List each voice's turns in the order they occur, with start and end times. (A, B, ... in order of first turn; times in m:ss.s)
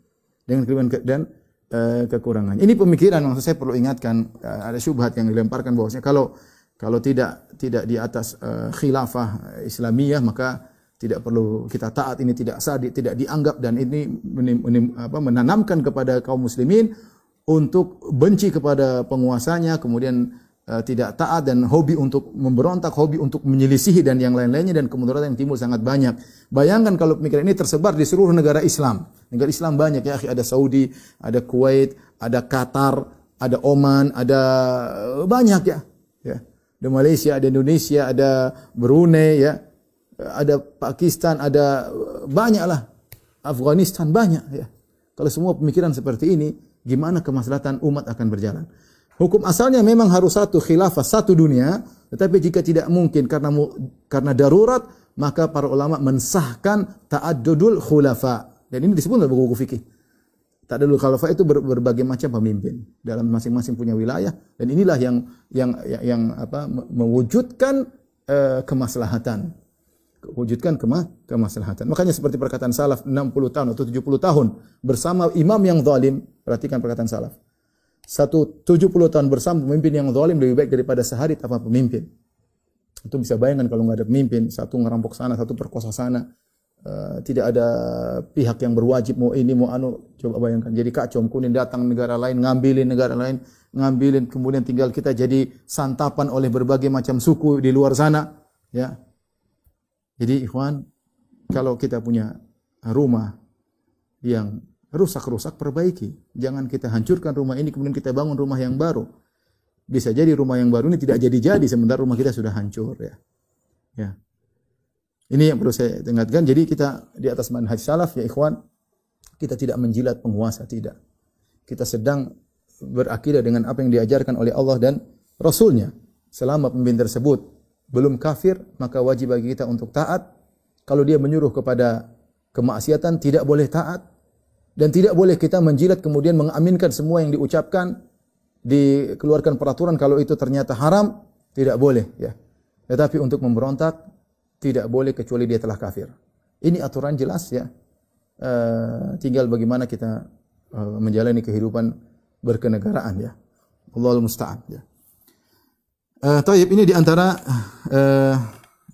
0:00.5-0:06.3 A
0:06.8-0:16.9 A
0:17.5-0:39.6 A
0:40.2-0:42.8 A
0:43.4-0:48.7 A
0:49.2-0:59.8 A
1:00.7-1:09.5 A
1:10.2-1:17.3 A
1:18.1-1:22.0 A
1:23.1-1:26.2 A
1:26.8-1:38.9 A
1:40.2-1:40.8 A
1:41.5-1:42.3 A
1:42.9-1:43.3 A
1:44.2-1:49.0 A
1:49.9-1:53.2 A
1:55.3-1:58.6 A
1:59.4-2:00.9 A
2:01.7-2:02.2 A
2:02.8-2:07.4 A
2:07.9-2:10.2 A
2:10.9-2:12.0 A
2:12.5-2:14.0 A
2:14.8-2:17.9 A
2:18.6-2:22.3 A
2:22.9-2:24.0 A
2:24.6-2:26.1 A
2:26.6-2:27.7 A
2:28.4-2:30.2 A
2:30.7-2:31.9 A
2:32.4-2:33.3 A
2:33.9-2:34.8 A
2:36.2-2:38.5 A